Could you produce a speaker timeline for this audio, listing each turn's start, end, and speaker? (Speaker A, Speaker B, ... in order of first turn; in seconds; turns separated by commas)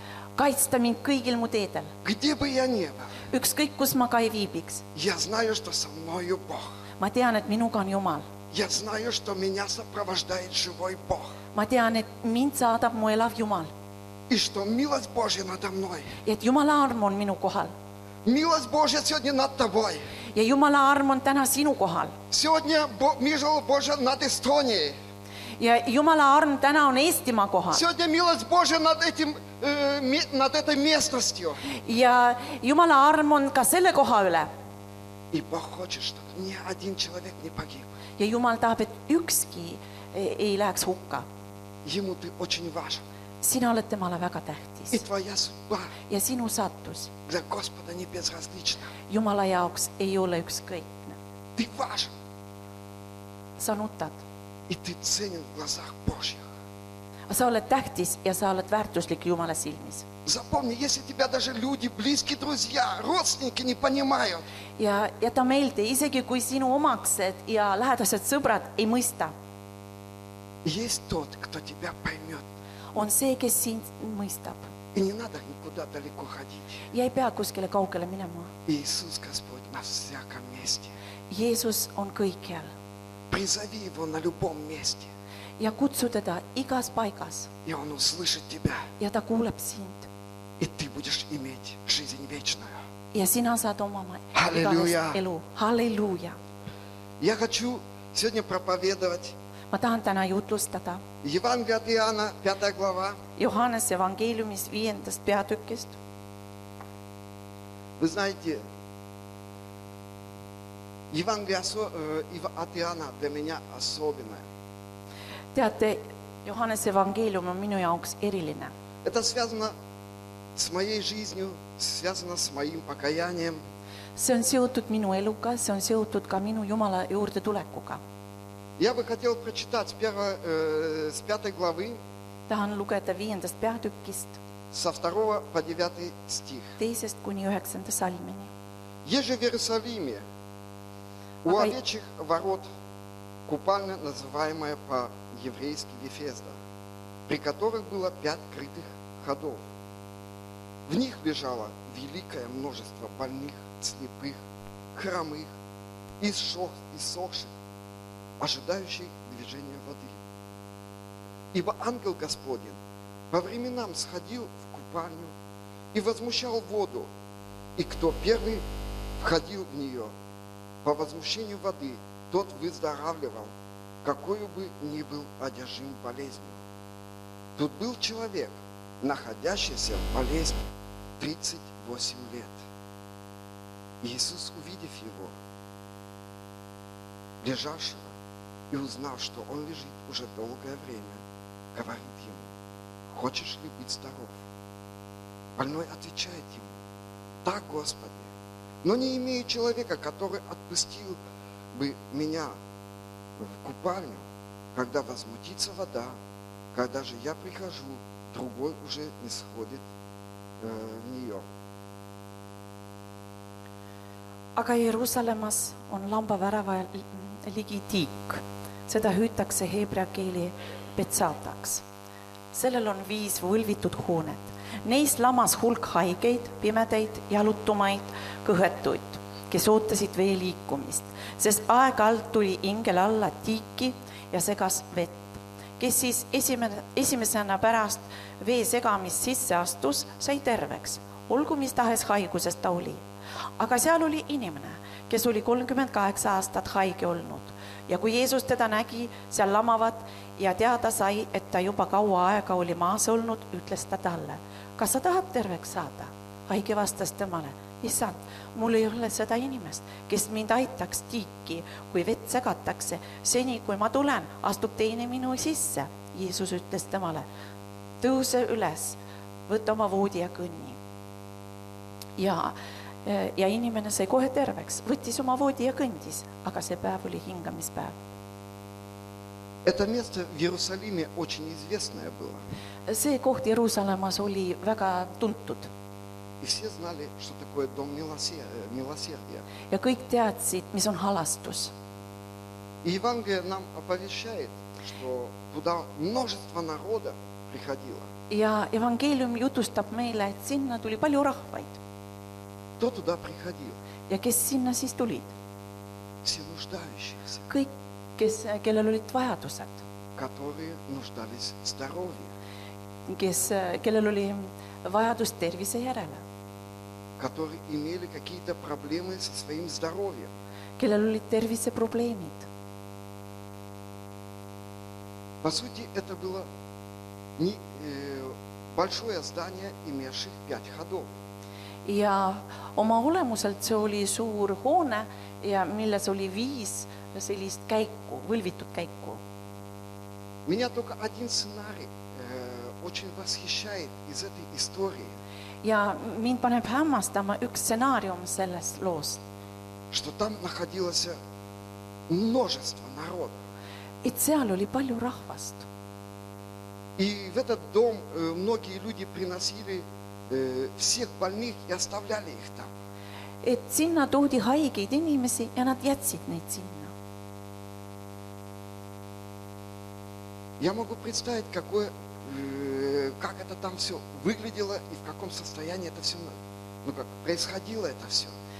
Speaker A: 0.3-1.9, Speaker B: 2.0-3.1, Speaker A: 3.3-4.8, Speaker B: 4.9-6.7, Speaker A: 7.0-8.3, Speaker B: 8.5-11.3, Speaker A: 11.5-13.7, Speaker B: 14.3-16.1, Speaker A: 16.2-17.7, Speaker B: 18.2-20.0, Speaker A: 20.3-22.1, Speaker B: 22.3-25.0, Speaker A: 25.6-27.8, Speaker B: 27.7-31.6, Speaker A: 31.7-34.5, Speaker B: 35.3-37.9, Speaker A: 38.2-41.2, Speaker B: 41.8-43.0, Speaker A: 43.4-45.0, Speaker B: 44.9-45.9, Speaker A: 46.1-47.1, Speaker B: 47.2-48.9, Speaker A: 49.1-51.2, Speaker B: 51.5-52.1, Speaker A: 53.6-54.2, Speaker B: 54.7-56.5, Speaker A: 57.3-60.0, Speaker B: 60.2-64.5, Speaker A: 64.8-69.3, Speaker B: 70.6-72.5, Speaker A: 72.9-74.7, Speaker B: 74.9-76.9, Speaker A: 76.9-78.5, Speaker B: 78.7-80.9, Speaker A: 81.3-82.7, Speaker B: 83.3-85.1, Speaker A: 85.6-87.5, Speaker B: 87.6-88.9, Speaker A: 89.0-90.1, Speaker B: 90.6-92.8, Speaker A: 93.1-96.4, Speaker B: 94.3-95.2, Speaker B: 97.2-99.3, Speaker A: 99.7-101.0, Speaker B: 101.2-103.2, Speaker A: 103.4-106.0, Speaker B: 108.0-108.7, Speaker B: 111.1-114.5, Speaker A: 115.5-118.7, Speaker B: 119.0-119.7, Speaker B: 120.5-123.6, Speaker A: 124.2-128.0, Speaker B: 128.8-132.0, Speaker A: 132.5-134.4, Speaker B: 134.7-136.8, Speaker A: 136.8-138.5, Speaker B: 139.0-140.2, Speaker A: 141.4-141.8, Speaker B: 141.4-142.7, Speaker B: 143.5-146.6, Speaker B: 147.3-149.7, Speaker B: 150.9-154.4, Speaker B: 154.9-155.5, Speaker B: 156.2-157.5, Speaker B: 158.4-160.2, Speaker B: 161.5-165.3, Speaker B: 165.9-167.1, Speaker B: 167.8-168.6, Speaker B: 169.2-170.1, Speaker B: 170.8-176.6, Speaker B: 177.6-180.7, Speaker B: 181.2-182.6, Speaker B: 184.0-185.4, Speaker B: 187.4-188.1, Speaker B: 188.7-191.2, Speaker B: 191.7-192.5, Speaker B: 193.1-194.4, Speaker B: 195.6-196.8, Speaker B: 197.4-198.3, Speaker B: 198.8-201.2, Speaker B: 201.7-202.6, Speaker B: 203.4-206.2, Speaker B: 206.7-209.8, Speaker B: 210.6-211.4, Speaker A: 214.6-221.8, Speaker A: 222.5-243.0, Speaker A: 243.6-267.2, Speaker A: 268.0-270.8, Speaker A: 272.2-278.0, Speaker B: 279.6-282.4, Speaker A: 282.9-285.7, Speaker B: 286.4-289.4, Speaker A: 289.7-291.7, Speaker B: 292.8-298.1, Speaker A: 298.3-301.8, Speaker B: 302.8-303.8, Speaker A: 304.1-305.3, Speaker B: 306.2-307.5, Speaker A: 307.5-309.8, Speaker B: 310.1-312.3, Speaker A: 313.1-316.2, Speaker B: 317.2-320.3, Speaker A: 320.8-322.5, Speaker B: 325.4-326.5, Speaker B: 327.4-331.1, Speaker A: 331.8-339.2, Speaker B: 340.4-345.2, Speaker A: 345.6-349.2, Speaker B: 349.9-351.2, Speaker B: 352.1-353.4, Speaker A: 354.0-355.7, Speaker B: 357.0-362.7, Speaker A: 363.4-366.9, Speaker B: 370.6-378.3